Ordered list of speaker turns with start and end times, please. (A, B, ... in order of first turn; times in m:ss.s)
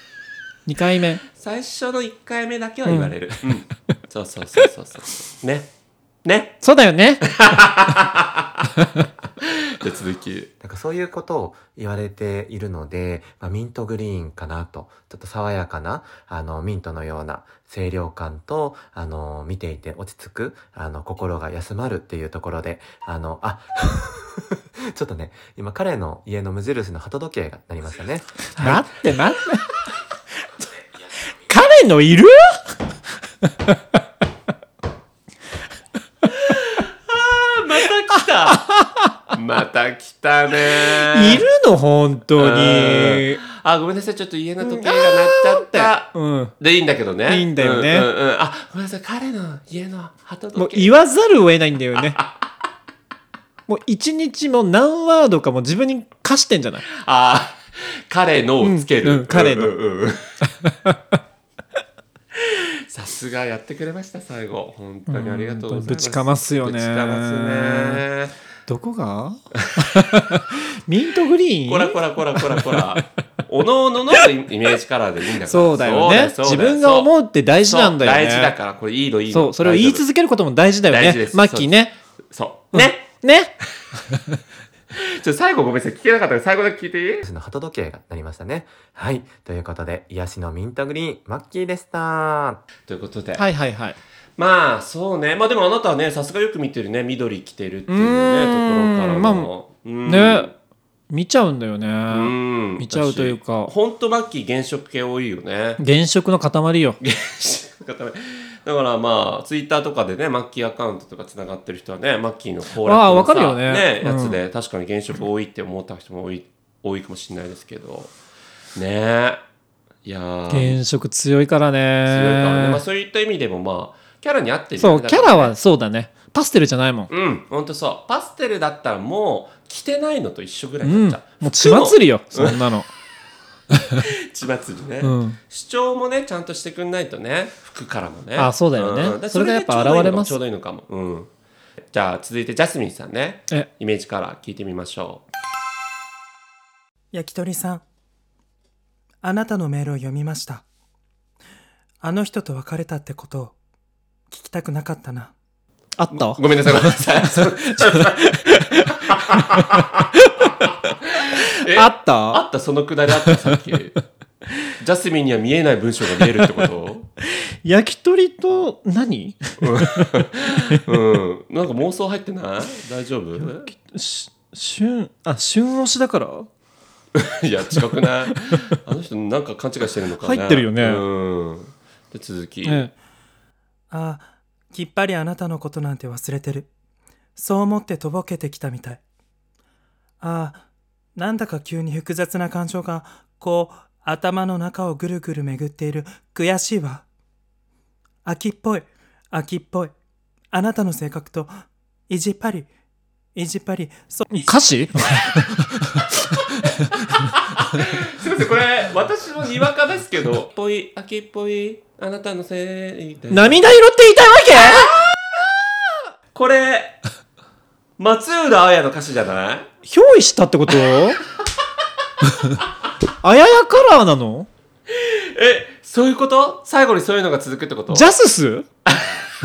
0:00.7-0:01.2 A
0:01.4-0:05.7 B
0:02.8-0:03.6 A
0:06.2-0:06.6 B
0:06.6-0:07.3 A
0:07.2-0:08.7 B
0:09.4-0:10.5 B
0:10.6-0:28.7 C
0:28.6-0:29.7 A
0:31.4-0:32.8 A
0:33.4-0:33.8 A
0:36.3-0:38.6 B
0:38.6-0:39.1 A
0:39.3-0:41.4 B
0:40.6-0:43.4 A
0:42.4-0:50.9 B
0:44.6-0:46.6 A
0:47.3-0:48.1 A
0:50.6-0:52.2 A
0:52.0-0:52.3 B
0:53.7-0:56.8 A
0:56.9-1:00.2 B
0:58.6-0:59.8 A
1:00.6-1:01.2 A
1:02.4-1:08.4 B
1:05.1-1:08.0 A
1:08.7-1:13.0 A
1:09.6-1:10.0 B
1:11.6-1:17.1 B
1:15.4-1:18.5 A
1:17.6-1:20.0 B
1:19.3-1:21.9 A
1:20.9-1:21.8 B
1:22.3-1:23.1 B
1:22.7-1:23.5 A
1:25.0-1:27.3 B
1:27.2-1:32.6 C
1:32.9-1:33.4 B
1:33.4-1:34.0 A
1:34.4-1:40.5 B
1:37.9-1:39.5 A
1:40.1-1:40.5 A
1:41.1-1:43.7 A
1:42.1-1:45.8 B
1:45.8-1:47.0 A
1:47.0-1:58.1 B
1:52.8-1:54.4 A
1:58.8-1:59.4 B
2:00.0-2:00.8 B
2:00.5-2:02.8 A
2:02.1-2:05.5 B
2:04.8-2:07.1 A
2:07.1-2:12.6 B
2:10.8-2:12.9 A
2:14.0-2:21.3 B
2:15.0-2:15.4 A
2:18.4-2:20.4 A
2:21.9-2:25.2 B
2:27.1-2:27.8 D
2:29.2-2:30.6 D
2:32.0-2:33.6 D
2:34.3-2:35.3 D
2:36.0-2:40.5 A
2:36.1-2:44.0 B
2:41.7-2:42.4 A
2:44.8-2:47.1 B
2:47.2-2:50.9 A
2:49.6-2:53.7 B
2:53.4-2:56.5 A
2:57.2-3:02.9 B
3:00.2-3:01.0 A
3:02.6-3:02.9 A
3:03.9-3:06.7 D
3:07.4-3:09.0 D
3:10.2-3:10.6 D
3:11.2-3:17.1 D
3:18.2-3:19.9 D
3:20.5-3:21.5 D
3:22.1-3:22.7 D
3:23.4-3:24.6 D
3:24.4-3:26.1 A
3:27.2-3:33.7 B
3:33.3-3:35.0 A
3:36.3-3:37.0 B
3:38.0-3:39.7 B
3:39.8-3:41.2 A
3:43.2-3:44.5 A
3:44.9-3:48.1 B
3:47.9-3:48.7 A
3:48.9-3:49.2 B